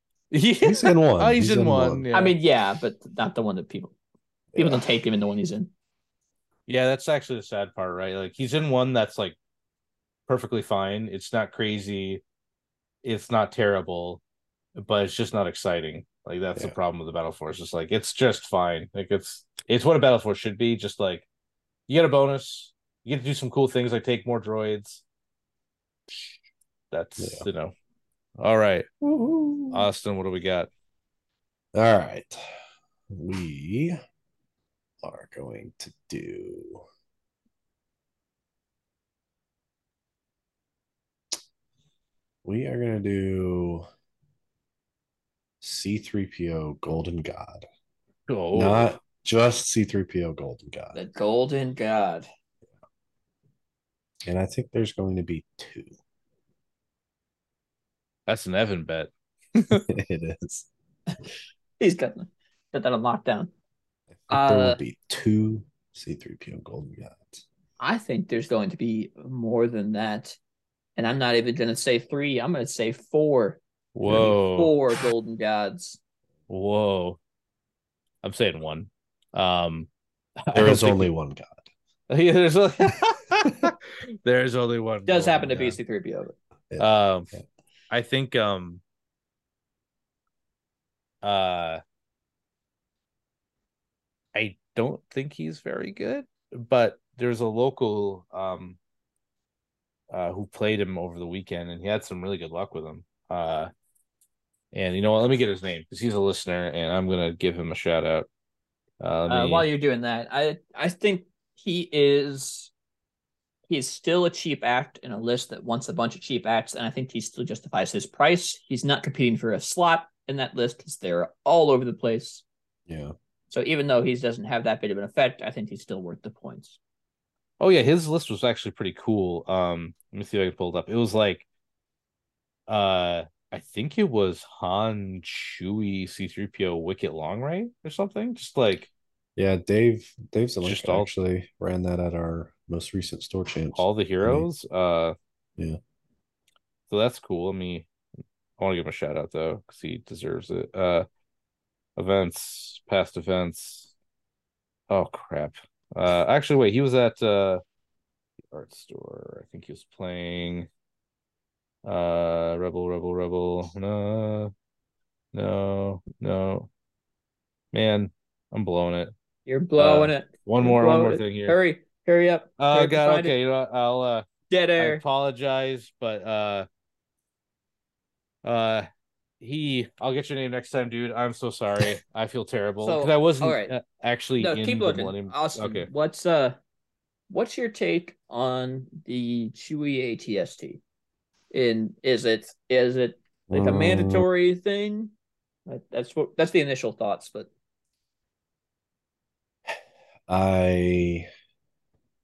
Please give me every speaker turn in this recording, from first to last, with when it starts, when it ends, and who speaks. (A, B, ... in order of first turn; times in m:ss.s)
0:00.3-0:02.4 A
0:00.6-0:02.1 B
0:02.1-0:04.0 C
0:04.5-0:04.8 B
0:04.6-0:05.7 C
0:06.7-0:09.4 A
0:10.3-0:12.2 A
0:13.0-0:14.2 A
0:14.8-0:21.3 A
0:21.9-0:25.0 A
0:26.9-0:27.7 A
0:27.2-0:27.5 B
0:28.4-0:28.9 A
0:29.0-0:29.9 B
0:29.7-0:30.7 A
0:31.8-0:32.5 B
0:33.1-0:34.0 B
0:35.0-0:36.8 B
0:42.4-0:43.9 B
0:45.6-0:47.7 B
0:48.3-0:49.0 A
0:48.5-0:51.0 B
0:50.9-0:52.3 C
0:54.2-0:55.9 B
0:58.3-0:59.9 A
0:59.9-1:00.7 B
1:01.8-1:03.5 C
1:04.2-1:07.4 B
1:04.3-1:04.8 C
1:07.8-1:10.4 C
1:11.0-1:13.6 C
1:14.0-1:14.7 A
1:14.1-1:14.4 B
1:14.2-1:16.0 C
1:16.5-1:17.2 A
1:18.2-1:19.9 A
1:20.4-1:21.1 A
1:20.5-1:21.7 B
1:22.1-1:25.8 A
1:25.1-1:26.3 C
1:26.7-1:27.4 B
1:26.8-1:27.3 A
1:27.9-1:28.8 A
1:31.2-1:31.8 A
1:34.3-1:38.8 A
1:40.1-1:43.7 A
1:44.7-1:48.3 A
1:49.0-1:49.7 A
1:49.3-1:52.7 C
1:53.7-2:02.4 C
2:02.9-2:03.1 B
2:03.5-2:06.8 C
2:07.6-2:11.4 A
2:12.7-2:18.9 A
2:19.4-2:24.5 B
2:20.6-2:21.1 A
2:23.8-2:25.2 A
2:26.9-2:27.9 A
2:28.6-2:31.0 A
2:32.0-2:33.9 A
2:34.9-2:37.6 A
2:38.5-2:40.7 A
2:41.8-2:44.5 A
2:45.3-2:46.7 A
2:47.7-2:49.1 A
2:49.5-2:53.4 C
2:49.8-2:51.6 A
2:52.6-2:54.3 A
2:54.5-2:55.0 C
2:54.8-2:56.7 A
2:58.4-2:58.9 A
2:59.4-3:05.9 A
3:02.8-3:03.7 C
3:04.4-3:06.6 C
3:07.3-3:10.8 C
3:11.5-3:15.1 C
3:13.5-3:14.2 B
3:15.7-3:17.5 C
3:20.3-3:21.3 B